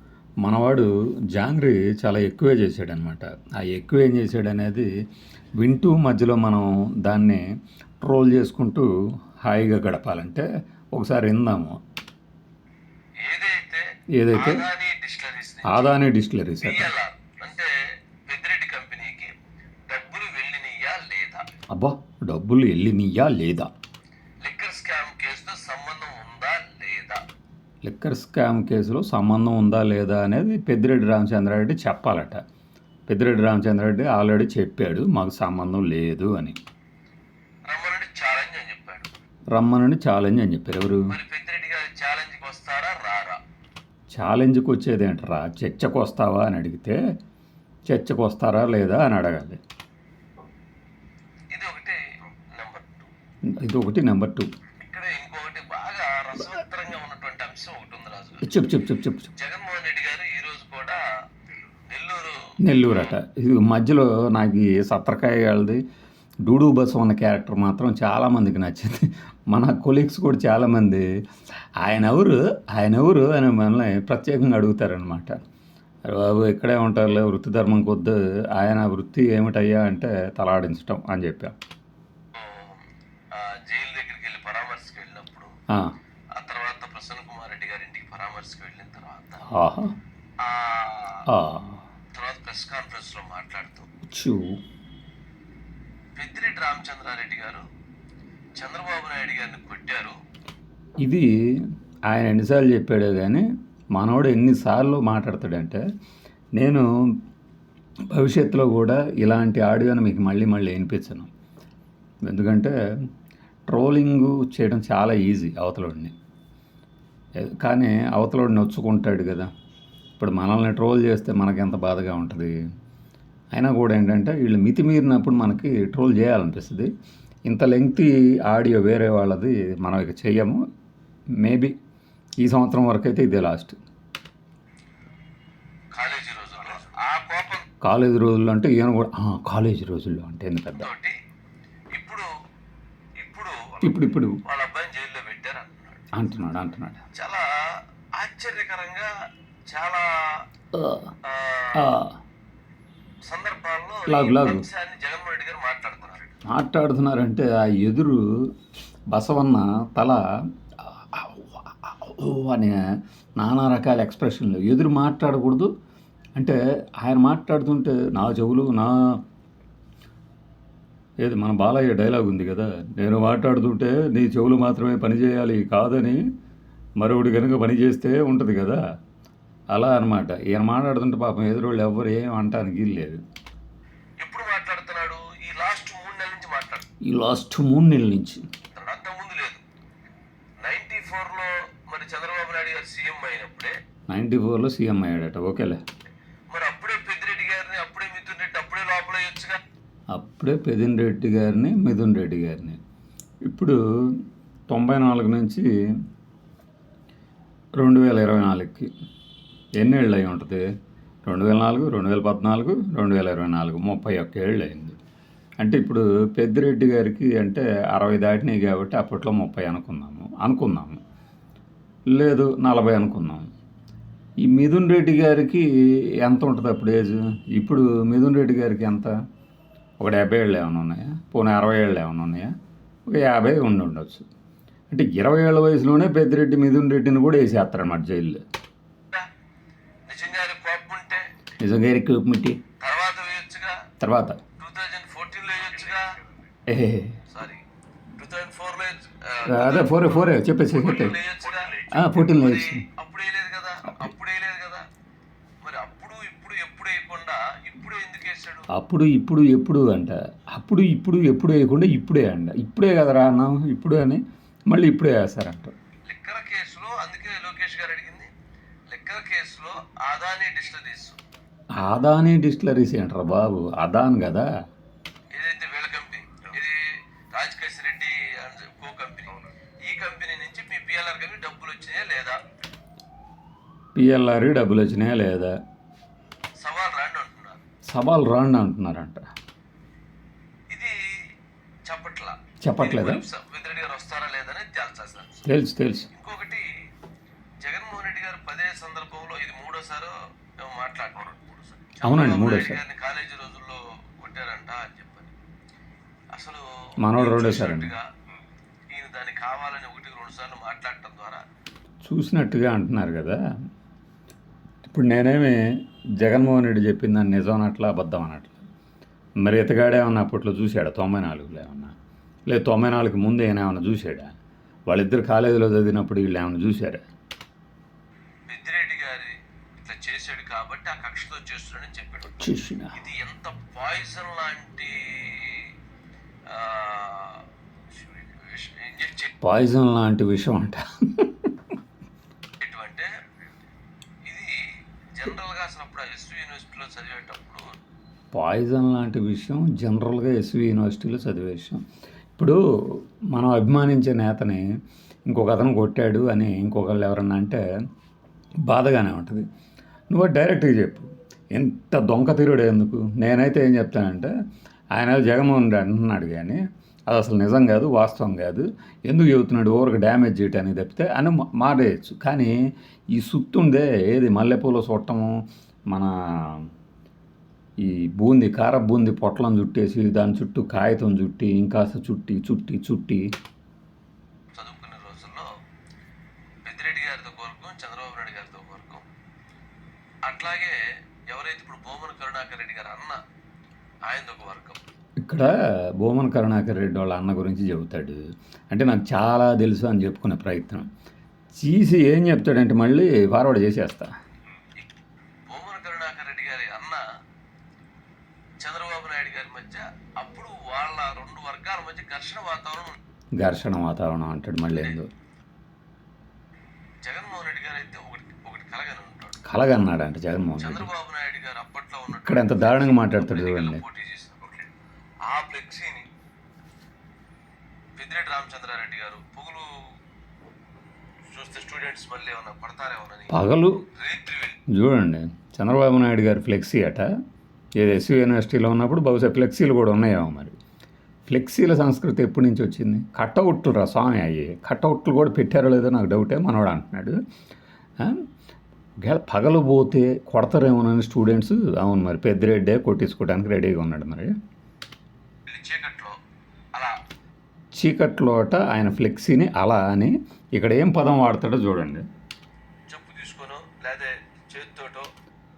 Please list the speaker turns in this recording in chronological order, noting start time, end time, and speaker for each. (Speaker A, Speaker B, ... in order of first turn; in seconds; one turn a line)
Speaker A: 0.4-4.9
Speaker A: 5.6-7.4
Speaker A: 8.0-8.9
Speaker A: 9.4-11.8
Speaker B: 13.2-16.0
Speaker A: 14.2-14.6
Speaker A: 15.7-16.9
Speaker B: 16.6-17.7
Speaker B: 18.3-19.3
Speaker B: 19.9-21.5
Speaker A: 21.7-23.7
Speaker B: 24.4-27.2
Speaker A: 27.8-32.4
Speaker A: 33.1-36.6
Speaker B: 37.7-39.1
Speaker A: 39.5-41.1
Speaker B: 41.1-43.4
Speaker A: 44.1-47.0
Speaker A: 47.9-49.6
Speaker B: 51.5-52.0
Speaker B: 52.5-53.1
Speaker A: 53.5-54.5
Speaker B: 54.8-58.5
Speaker A: 58.4-59.3
Speaker B: 59.4-61.0
Speaker B: 61.9-62.5
Speaker A: 62.6-65.8
Speaker A: 66.5-71.0
Speaker A: 71.8-75.4
Speaker A: 76.1-81.5
Speaker B: 82.3-85.5
Speaker B: 86.4-89.4
Speaker A: 89.5-89.9
Speaker B: 90.4-91.2
Speaker A: 91.3-91.8
Speaker B: 92.2-93.9
Speaker A: 94.1-94.6
Speaker B: 96.2-97.7
Speaker B: 98.6-100.2
Speaker A: 102.1-103.5
Speaker A: 104.0-105.8
Speaker A: 106.6-106.9
Speaker A: 108.1-111.3
Speaker A: 112.3-112.7
Speaker A: 113.7-116.1
Speaker A: 117.4-119.5
Speaker A: 120.2-122.5
Speaker A: 123.5-126.9
Speaker A: 127.5-130.6
Speaker A: 131.4-131.8
Speaker A: 132.4-133.8
Speaker B: 135.9-137.7
Speaker A: 137.8-140.9
Speaker B: 140.8-141.2
Speaker B: 141.9-142.3
Speaker B: 143.2-146.2
Speaker A: 143.8-144.4
Speaker A: 146.1-147.0
Speaker B: 147.2-149.1
Speaker B: 149.7-150.4
Speaker A: 150.7-151.1
Speaker B: 151.2-152.0
Speaker A: 151.8-152.2
Speaker B: 153.3-156.2
Speaker A: 154.1-154.6
Speaker A: 156.5-158.2
Speaker A: 159.1-160.2
Speaker A: 161.0-162.8
Speaker A: 163.4-165.7
Speaker A: 166.4-169.2
Speaker A: 171.2-176.2
Speaker A: 177.0-178.8
Speaker A: 179.7-183.2
Speaker B: 184.2-186.9
Speaker A: 187.1-188.4
Speaker B: 188.7-189.6
Speaker B: 190.6-193.7
Speaker A: 194.1-195.8
Speaker B: 196.5-199.6
Speaker A: 200.1-202.8
Speaker A: 203.5-203.8
Speaker A: 204.7-205.7
Speaker A: 207.8-208.9
Speaker A: 209.8-210.6
Speaker A: 211.3-215.0
Speaker A: 215.6-221.0
Speaker A: 222.1-223.5
Speaker A: 224.4-225.7
Speaker A: 226.2-229.1
Speaker A: 230.0-232.5
Speaker A: 233.1-234.3
Speaker A: 234.9-238.4
Speaker B: 240.1-241.2
Speaker A: 241.6-242.6
Speaker B: 242.8-243.8
Speaker A: 244.0-244.4
Speaker B: 244.6-246.1
Speaker A: 246.7-247.2
Speaker B: 247.3-247.6
Speaker B: 248.2-254.9
Speaker A: 249.5-251.2
Speaker A: 251.9-252.8
Speaker B: 255.6-258.7
Speaker A: 258.7-265.7
Speaker B: 266.1-268.3
Speaker B: 268.9-271.2
Speaker A: 271.8-274.5
Speaker B: 275.3-282.4
Speaker A: 284.0-285.5
Speaker B: 286.6-287.6
Speaker A: 287.9-289.2
Speaker B: 290.7-291.3
Speaker B: 291.9-295.5
Speaker A: 292.6-293.2
Speaker A: 295.5-296.1
Speaker B: 296.1-296.7
Speaker B: 297.6-305.3
Speaker A: 302.0-302.8
Speaker B: 306.3-308.1
Speaker A: 307.0-307.9
Speaker B: 308.9-311.4
Speaker A: 312.0-313.4
Speaker A: 314.9-315.6
Speaker A: 316.2-318.6
Speaker A: 319.4-321.9
Speaker A: 322.5-324.3
Speaker A: 324.9-327.1
Speaker B: 328.5-332.4
Speaker A: 332.4-332.9
Speaker B: 332.9-335.8
Speaker B: 336.5-339.4
Speaker A: 339.4-341.5
Speaker B: 342.6-343.1
Speaker B: 344.3-344.6
Speaker B: 345.2-347.7
Speaker A: 348.3-351.8
Speaker A: 352.4-354.6
Speaker A: 355.3-357.6
Speaker A: 358.7-359.4
Speaker A: 360.1-364.3
Speaker A: 364.9-372.5
Speaker A: 373.1-375.3
Speaker A: 375.9-376.6
Speaker A: 377.9-383.3
Speaker B: 384.5-385.5
Speaker B: 386.6-389.1
Speaker B: 390.3-390.8
Speaker B: 391.3-393.2
Speaker B: 394.1-394.8
Speaker A: 395.2-400.9
Speaker A: 401.6-404.1
Speaker B: 405.5-407.0
Speaker B: 408.6-413.0
Speaker A: 413.4-415.1
Speaker B: 414.7-415.0
Speaker B: 417.0-419.4
Speaker A: 419.4-420.9
Speaker B: 420.6-424.5
Speaker A: 422.2-423.8
Speaker B: 425.2-426.1
Speaker B: 428.0-429.7
Speaker B: 431.3-433.4
Speaker A: 433.3-433.8
Speaker B: 433.9-434.6
Speaker A: 434.7-437.1
Speaker A: 437.8-440.6
Speaker A: 441.3-447.2
Speaker A: 449.1-454.3
Speaker B: 455.5-456.2
Speaker A: 457.8-462.1
Speaker B: 462.9-465.1